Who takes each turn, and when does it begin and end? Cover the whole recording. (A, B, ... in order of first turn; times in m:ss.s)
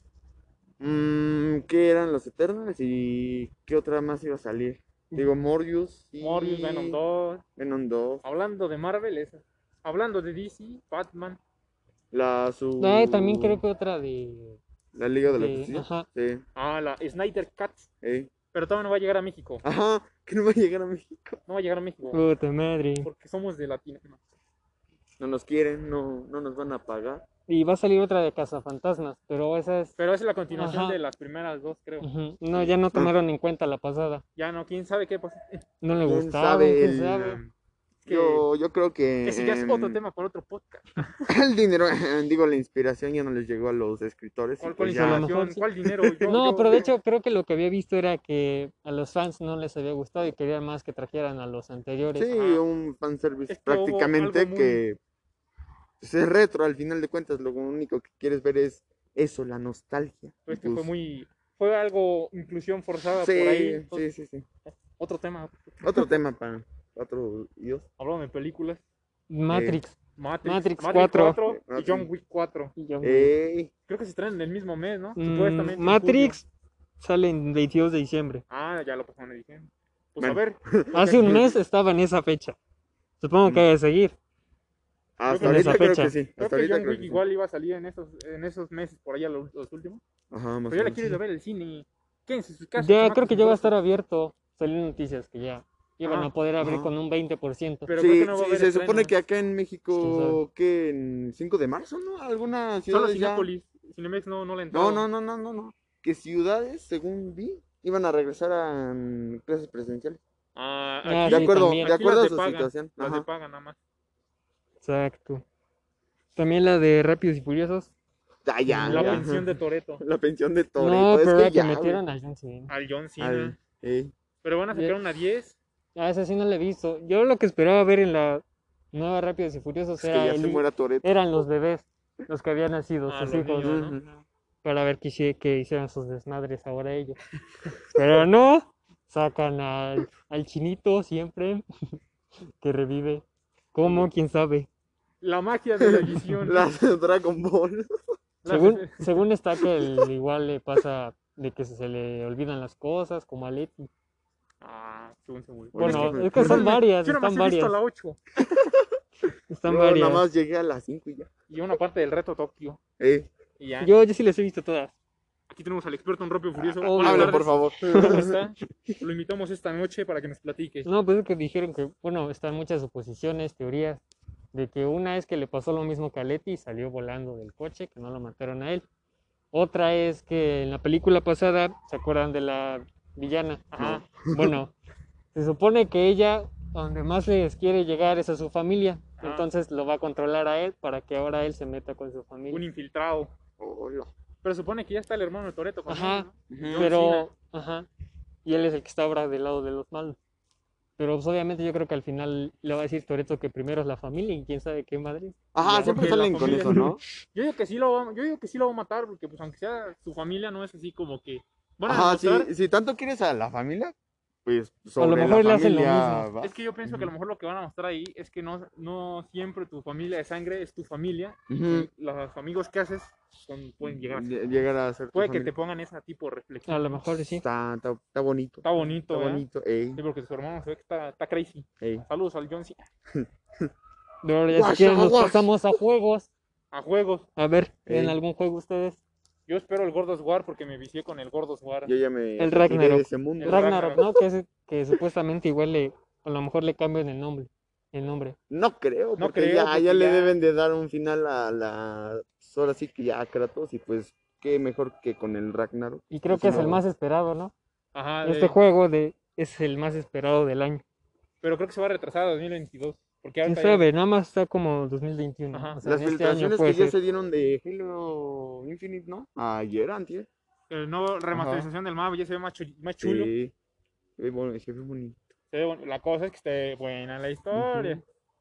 0:00.8-0:07.0 A
0:06.2-0:07.4 B
0:07.6-0:08.2 A
0:08.2-0:11.4 B
0:12.1-0:13.6 A
0:12.8-0:14.6 C
0:15.0-0:16.4 A
0:15.3-0:16.1 C
0:16.6-0:17.9 B
0:18.0-0:18.3 A
0:18.5-0:19.6 B
0:19.6-0:21.4 A
0:21.5-0:22.2 B
0:22.1-0:23.1 C
0:23.0-0:24.2 B
0:25.2-0:27.2 A
0:27.5-0:30.0 C
0:30.0-0:32.1 B
0:30.5-0:31.0 C
0:32.0-0:34.2 C
0:32.5-0:33.2 A
0:34.4-0:35.6 B
0:35.8-0:37.4 C
0:36.0-0:37.4 A
0:37.2-0:37.5 B
0:38.0-0:40.0 A
0:38.1-0:38.5 B
0:39.2-0:41.2 B
0:41.3-0:45.3 A
0:44.6-0:46.9 B
0:44.9-0:45.7 C
0:45.8-0:46.8 A
0:46.2-0:52.3 C
0:52.2-0:55.0 A
0:52.3-0:52.6 B
0:53.5-0:54.8 B
0:56.0-1:00.9 A
1:00.5-1:04.1 B
1:03.2-1:04.5 A
1:04.7-1:06.2 B
1:05.8-1:07.9 A
1:08.0-1:08.8 B
1:09.3-1:11.4 C
1:09.5-1:09.8 A
1:10.2-1:12.7 B
1:11.4-1:12.1 A
1:12.8-1:13.3 C
1:13.0-1:13.7 A
1:13.9-1:16.4 B
1:15.2-1:16.4 C
1:17.0-1:18.4 C
1:18.5-1:21.4 B
1:20.2-1:21.6 A
1:20.9-1:22.6 C
1:23.2-1:24.2 C
1:23.4-1:23.7 A
1:25.2-1:27.2 A
1:25.3-1:30.0 B
1:25.4-1:26.2 C
1:30.3-1:31.2 A
1:30.7-1:33.7 B
1:32.8-1:38.0 C
1:36.0-1:36.3 B
1:36.6-1:36.9 A
1:37.9-1:39.1 B
1:38.0-1:43.5 A
1:40.0-1:40.4 C
1:42.9-1:45.1 B
1:44.7-1:50.2 A
1:50.6-1:53.8 B
1:51.0-1:52.0 C
1:51.3-1:53.3 A
1:54.8-1:55.4 C
1:56.4-1:57.9 C
1:58.5-1:59.4 A
1:58.7-1:59.3 C
1:58.8-2:00.0 B
2:00.0-2:02.0 A
2:00.8-2:02.7 C
2:02.7-2:03.6 B
2:03.2-2:04.1 A
2:04.4-2:05.6 B
2:06.0-2:13.8 C
2:10.0-2:11.1 A
2:13.1-2:14.0 B
2:13.6-2:14.2 A
2:14.6-2:17.2 C
2:17.8-2:21.6 C
2:22.6-2:24.7 C
2:23.8-2:24.1 A
2:25.2-2:26.7 B
2:25.8-2:28.0 A
2:28.4-2:29.1 B
2:28.5-2:33.9 C
2:29.8-2:30.1 A
2:34.6-2:38.2 B
2:35.7-2:36.8 A
2:35.8-2:37.8 C
2:38.4-2:39.0 A
2:39.5-2:40.3 C
2:39.7-2:41.3 A
2:41.5-2:42.8 B
2:43.0-2:43.3 A
2:43.6-2:43.9 B
2:43.8-2:44.9 C
2:45.5-2:50.9 B
2:46.6-2:49.0 A
2:46.8-2:48.3 C
2:50.8-2:58.9 C
2:59.5-3:04.7 C
3:03.7-3:04.1 B
3:03.8-3:04.6 A
3:05.3-3:12.6 C
3:09.2-3:09.5 B
3:12.5-3:13.3 B
3:13.6-3:14.1 A
3:14.4-3:17.3 B
3:15.9-3:17.9 C
3:16.5-3:16.9 A
3:18.4-3:20.2 C
3:21.0-3:26.8 C
3:25.5-3:27.0 A
3:25.8-3:32.5 B
3:31.8-3:37.1 A
3:35.0-3:36.3 C
3:36.4-3:44.6 B
3:41.5-3:41.9 A
3:43.8-3:45.5 A
3:45.1-3:47.0 B
3:46.7-3:47.4 C
3:47.3-3:50.0 A
3:48.6-3:52.9 B
3:51.8-3:52.0 A
3:53.1-3:53.7 A
3:54.2-3:56.3 C
3:54.5-3:55.5 A
3:56.7-3:57.3 B
3:57.4-3:59.0 C
3:57.9-3:58.2 A
3:59.5-4:01.9 B
4:01.8-4:03.9 A
4:02.4-4:08.4 C
4:03.4-4:04.0 B
4:08.5-4:16.8 A
4:09.2-4:10.4 B
4:16.1-4:17.5 C
4:17.9-4:18.6 B
4:18.2-4:20.8 C
4:21.4-4:23.9 B
4:23.4-4:27.0 C
4:25.5-4:25.8 B
4:25.8-4:30.3 A
4:30.7-4:33.3 B
4:31.3-4:31.7 A
4:33.0-4:33.5 A
4:34.2-4:35.2 A
4:35.5-4:38.0 B
4:37.6-4:37.9 A